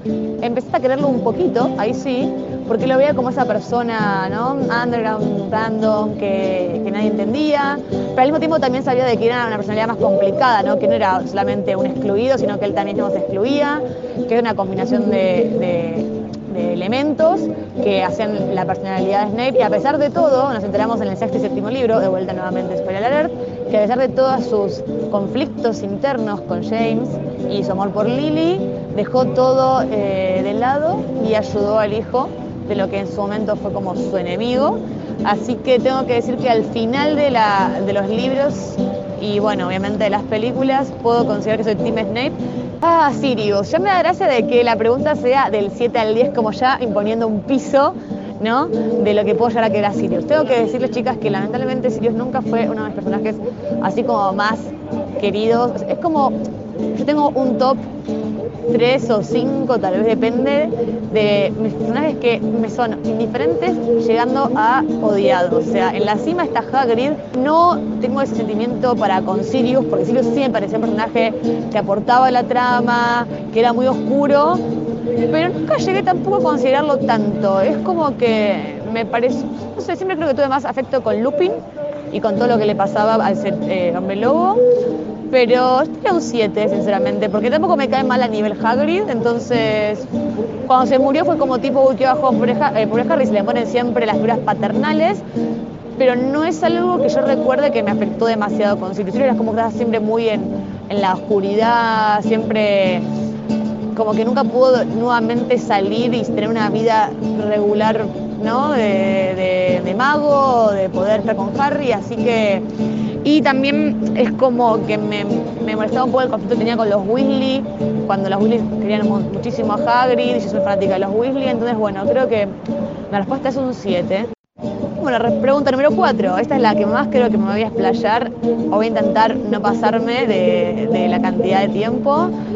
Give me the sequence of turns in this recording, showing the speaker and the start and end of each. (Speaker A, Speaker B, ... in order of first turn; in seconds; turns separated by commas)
Speaker A: 0.4-56.4, Speaker A: 56.9-57.8, Speaker A: 58.7-74.6, Speaker A: 75.3-84.6, Speaker A: 85.3-90.1, Speaker A: 90.7-95.2, Speaker A: 96.0-103.0, Speaker A: 103.9-112.6, Speaker A: 113.2-122.5, Speaker A: 123.1-124.3, Speaker A: 125.0-132.3